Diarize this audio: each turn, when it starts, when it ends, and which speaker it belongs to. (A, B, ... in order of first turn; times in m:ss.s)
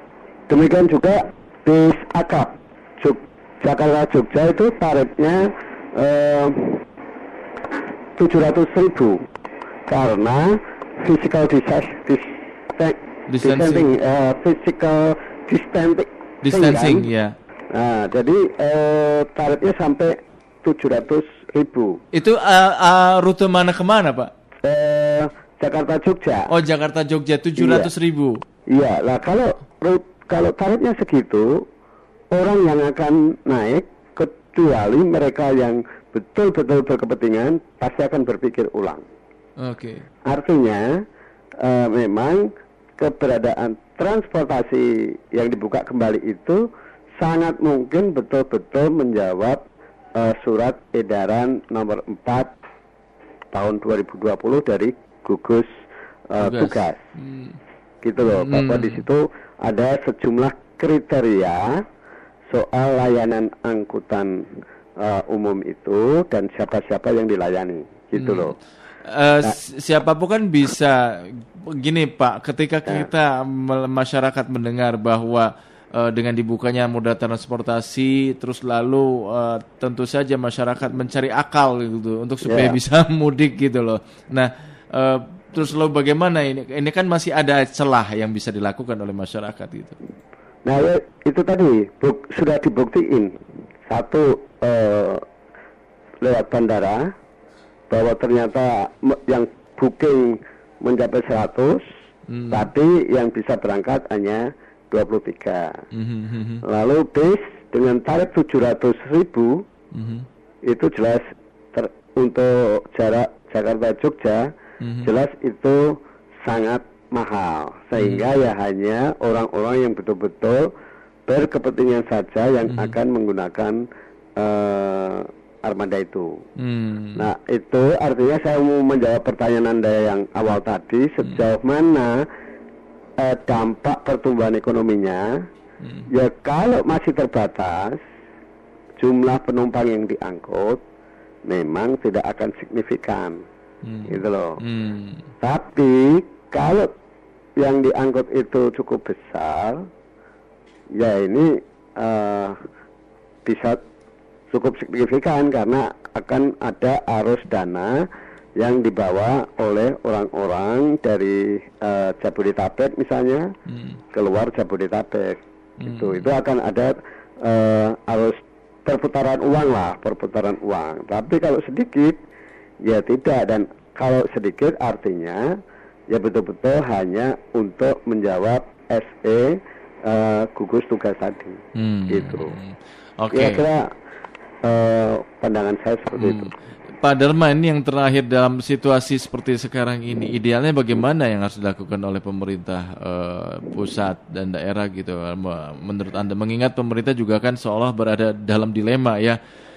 0:00.5-0:06.8 A
0:08.2-0:09.2 A
0:09.9-0:17.1 A
0:13.3-0:13.9 B
0:16.4-0:17.4 B
0:17.7-0:22.0 A
0:22.1-0:24.3 B
0:24.6-0:26.5 A
0:26.5-0:28.4 B
0:27.6-0:27.9 A
0:28.7-0:31.6 A
0:32.3-0:39.0 A
0:39.6-0:40.1 B
0:40.3-0:40.9 A
0:41.6-0:46.6 A
0:47.2-0:49.6 A
0:50.2-0:52.5 A
0:53.5-0:55.7 A
0:56.3-0:57.1 A
0:56.4-0:57.6 B
0:58.0-1:01.8 A
0:58.2-0:59.0 B
1:02.5-1:08.6 A
1:08.2-1:08.5 B
1:09.0-1:30.0 B
1:22.4-1:22.8 A
1:30.7-1:33.4 A
1:33.9-1:35.2 A
1:36.2-1:37.1 A
1:37.9-1:41.9 A
1:42.3-1:42.7 B
1:42.5-1:45.8 A
1:45.9-1:46.6 B
1:46.6-1:49.7 A
1:49.9-1:50.3 B
1:50.7-1:54.5 A
1:54.8-1:55.1 B
1:55.0-2:00.7 A
1:58.0-1:58.3 B
2:01.3-2:03.8 A
2:02.7-2:02.9 B
2:04.4-2:06.3 A
2:06.6-2:07.3 B
2:07.2-2:12.1 A
2:13.2-2:15.3 A
2:15.8-2:16.1 B
2:16.1-2:18.0 A
2:19.0-2:20.8 A
2:21.5-2:23.4 A
2:23.8-2:25.3 B
2:24.1-2:24.6 A
2:25.4-2:26.9 A
2:27.6-2:29.9 A
2:31.0-2:32.6 A
2:33.4-2:33.8 A
2:34.5-2:37.9 A
2:38.6-2:43.5 A
2:43.7-2:44.0 B
2:44.1-2:52.2 A
2:45.8-2:46.3 B
2:52.8-2:55.5 A
2:56.1-3:02.5 A
3:01.8-3:03.6 B
3:03.3-3:03.9 A
3:04.6-3:06.5 A
3:06.2-3:19.4 B